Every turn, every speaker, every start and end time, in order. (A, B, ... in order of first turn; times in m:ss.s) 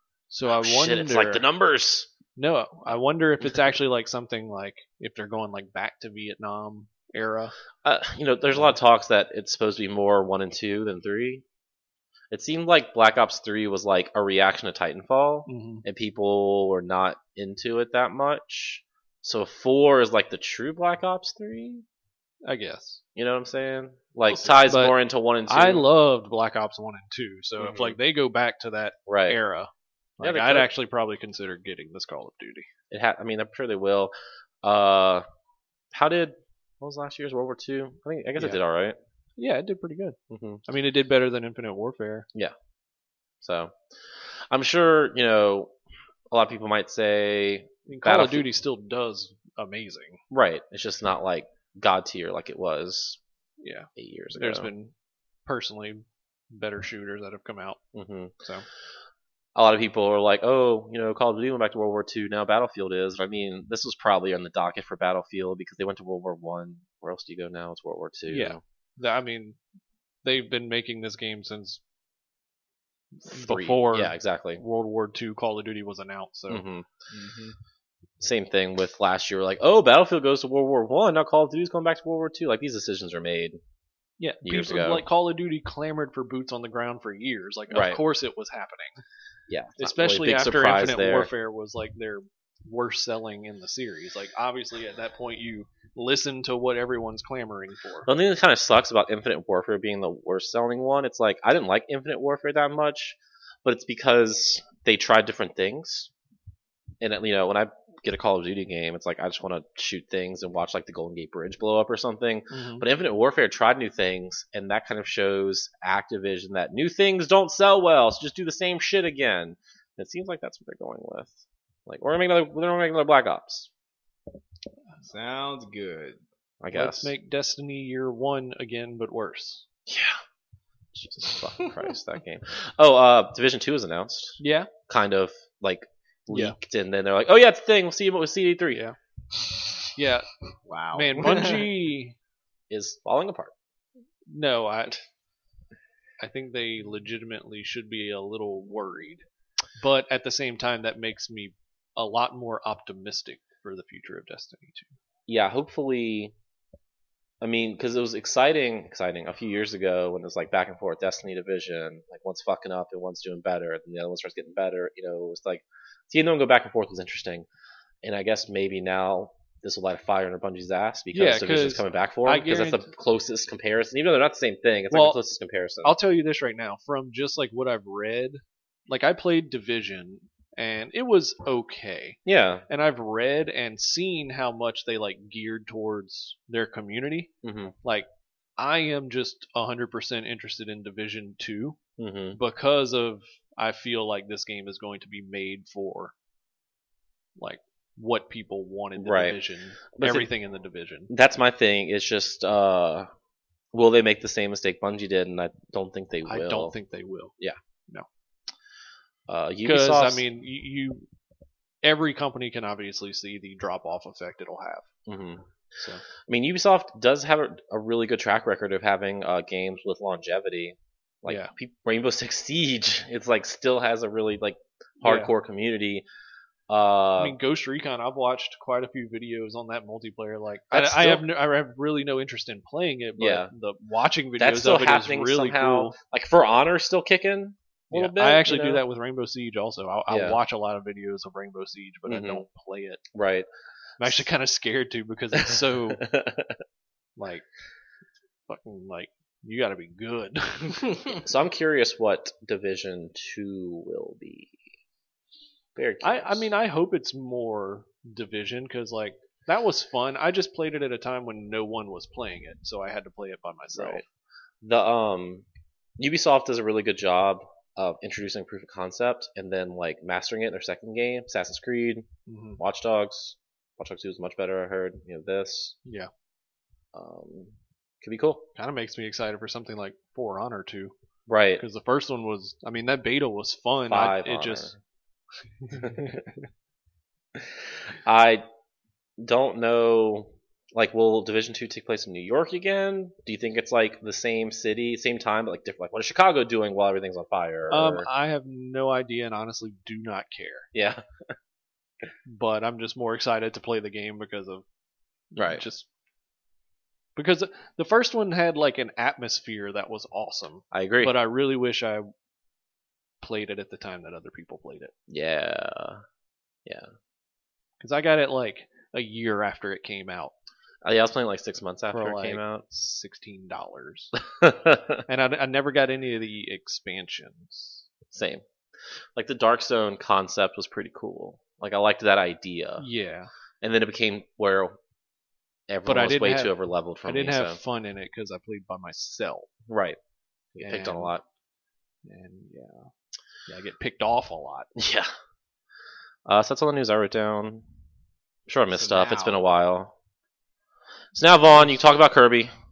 0:00.3-0:01.4 A
0:00.4-0:02.1 B
0:02.4-0:07.5 A
0:07.8-0:11.4 B
0:12.3-0:21.8 B
0:15.5-0:15.8 A
0:22.4-0:23.0 A
0:23.2-0:25.8 B
0:24.4-0:24.9 A
0:25.5-0:32.7 A
0:29.1-0:29.4 B
0:30.2-0:30.7 B
0:32.9-0:35.2 B
0:35.9-0:39.0 B
0:39.4-0:42.3 A
0:40.3-0:40.6 B
0:43.4-0:45.7 B
0:46.3-0:48.4 B
0:47.9-0:50.2 A
0:50.3-0:53.2 B
0:53.6-0:54.9 A
0:54.0-0:54.7 B
0:55.4-0:57.8 A
0:57.9-0:58.4 B
0:59.5-1:08.6 B
1:08.3-1:09.6 A
1:10.2-1:11.8 A
1:13.2-1:16.6 A
1:13.3-1:14.6 B
1:16.5-1:16.9 B
1:17.1-1:17.6 C
1:18.2-1:23.6 B
1:24.2-1:29.0 A
1:24.4-1:25.0 B
1:27.7-1:28.0 B
1:29.5-1:31.3 B
1:29.8-1:38.1 A
1:38.1-1:46.1 B
1:47.0-2:03.7 B
1:52.5-1:52.8 A
2:05.0-2:06.2 C
2:06.6-2:07.1 B
2:06.7-2:09.6 A
2:09.9-2:10.2 B
2:10.9-2:18.8 B
2:14.4-2:14.7 A
2:16.3-2:16.6 A
2:19.8-2:20.4 A
2:20.7-2:21.7 C
2:20.9-2:22.2 A
2:22.7-2:23.5 B
2:24.3-2:25.0 A
2:26.2-2:29.2 A
2:29.8-2:34.9 A
2:35.3-2:36.3 B
2:37.4-2:47.5 B
2:48.0-2:55.9 B
2:51.1-2:52.9 A
2:54.9-2:55.2 A
2:55.8-3:08.1 A
3:02.2-3:02.6 B
3:07.4-3:07.7 B
3:08.6-3:11.8 A
3:12.0-3:12.4 B
3:12.3-3:16.1 A
3:17.4-3:21.1 A
3:19.0-3:19.4 B
3:19.9-3:20.3 B
3:21.1-3:23.1 B
3:23.7-3:26.7 B
3:26.3-3:27.3 A
3:29.3-3:30.2 B
3:29.6-3:31.0 A
3:31.8-3:34.9 A
3:35.1-3:35.4 B
3:36.2-3:46.0 B
3:45.0-3:45.3 A
3:46.7-3:47.4 B
3:47.2-3:56.0 A
3:50.7-3:51.2 B
3:53.2-3:53.5 B
3:54.4-3:58.8 B
3:57.9-4:03.0 A
4:00.1-4:00.4 B
4:02.1-4:02.4 B
4:03.1-4:03.5 B
4:04.0-4:06.0 A
4:05.4-4:06.6 B
4:07.2-4:07.5 A
4:08.5-4:11.2 A
4:11.2-4:14.5 B
4:15.8-4:16.5 B
4:16.0-4:24.0 A
4:23.7-4:24.0 B
4:24.6-4:25.4 B
4:26.0-4:32.1 B
4:32.3-4:32.6 A
4:32.6-4:35.8 B
4:35.8-4:36.1 A
4:36.9-4:38.5 B
4:38.6-4:40.9 A
4:41.3-4:41.6 B
4:41.6-4:44.7 A
4:43.9-4:44.7 B
4:45.7-4:46.3 A
4:45.8-4:46.2 B
4:47.3-4:48.4 B
4:49.2-4:58.1 B
4:57.7-5:00.7 A
5:00.7-5:01.0 B
5:02.2-5:04.6 A
5:05.3-5:05.8 A
5:05.4-5:05.6 B
5:07.2-5:12.1 A
5:10.7-5:11.1 B
5:13.2-5:14.9 A
5:15.1-5:16.0 B
5:16.6-5:16.9 B
5:17.8-5:20.3 A
5:20.8-5:22.6 B
5:21.9-5:24.1 A
5:24.3-5:25.0 B
5:25.1-5:27.8 A
5:28.1-5:28.4 B
5:29.1-5:32.9 B
5:32.8-5:33.3 A
5:33.6-5:34.8 B
5:35.7-5:37.6 B
5:35.8-5:36.5 A
5:37.0-5:39.5 A
5:39.7-5:40.0 B
5:40.6-5:41.1 A
5:40.6-5:41.2 B
5:42.0-5:42.9 A
5:43.5-5:44.7 A
5:44.8-5:45.1 B
5:46.2-5:47.6 B
5:48.5-5:49.9 B
5:48.7-5:49.4 C
5:51.1-5:52.5 B